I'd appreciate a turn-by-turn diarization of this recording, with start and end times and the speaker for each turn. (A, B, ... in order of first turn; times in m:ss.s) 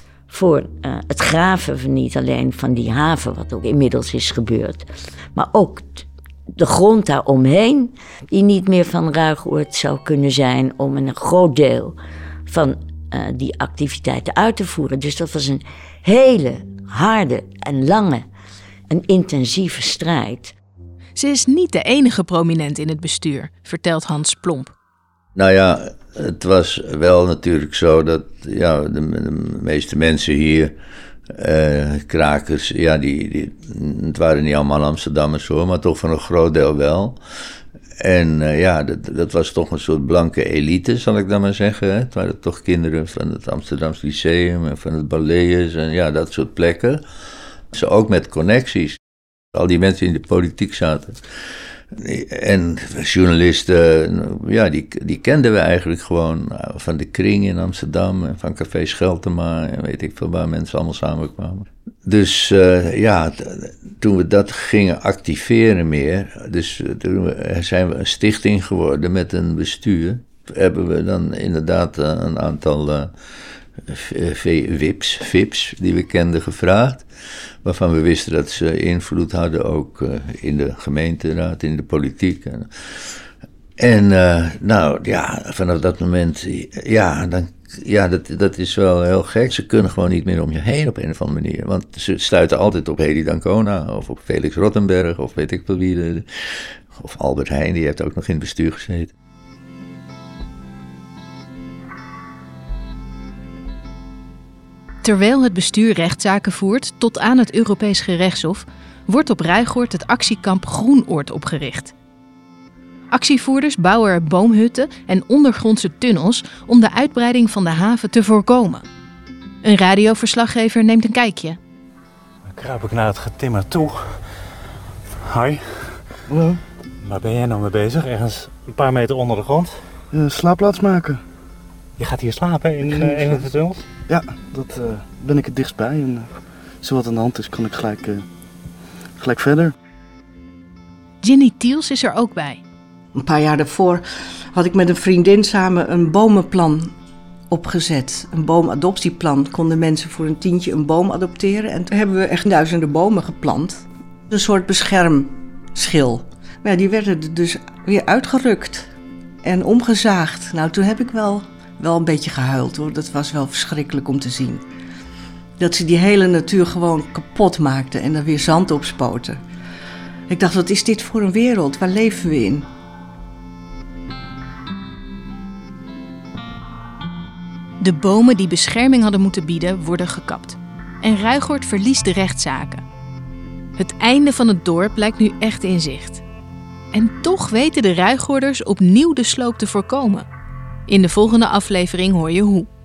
0:00.3-0:12.0 A
0:12.5-0:18.3 A
0:18.9-0:20.6 A
0:21.2-0:24.7 B
0:25.4-0:30.7 C
0:31.4-0:37.2 C
0:38.0-0:47.0 C
0:47.7-0:49.0 C
0:49.6-0:51.2 C
0:52.0-1:13.1 C
1:13.9-1:17.1 C
1:17.6-1:23.1 C
1:23.8-1:39.1 C
1:45.0-1:51.9 B
1:53.1-1:58.9 B
1:59.6-2:01.6 B
2:02.5-2:04.5 D
2:05.2-2:06.2 D
2:06.3-2:06.6 E
2:07.0-2:10.0 D
2:10.1-2:11.2 E
2:12.0-2:13.9 D
2:12.8-2:13.5 E
2:14.1-2:18.3 E
2:19.2-2:19.8 E
2:21.2-2:22.6 B
2:23.2-2:24.0 F
2:24.5-2:27.0 F
2:27.5-2:38.9 F
2:39.4-2:44.6 F
2:45.6-2:49.4 F
2:50.3-2:52.7 F
2:57.8-3:02.8 B
3:03.8-3:06.2 B
3:06.9-3:10.3 B
3:10.9-3:12.7 B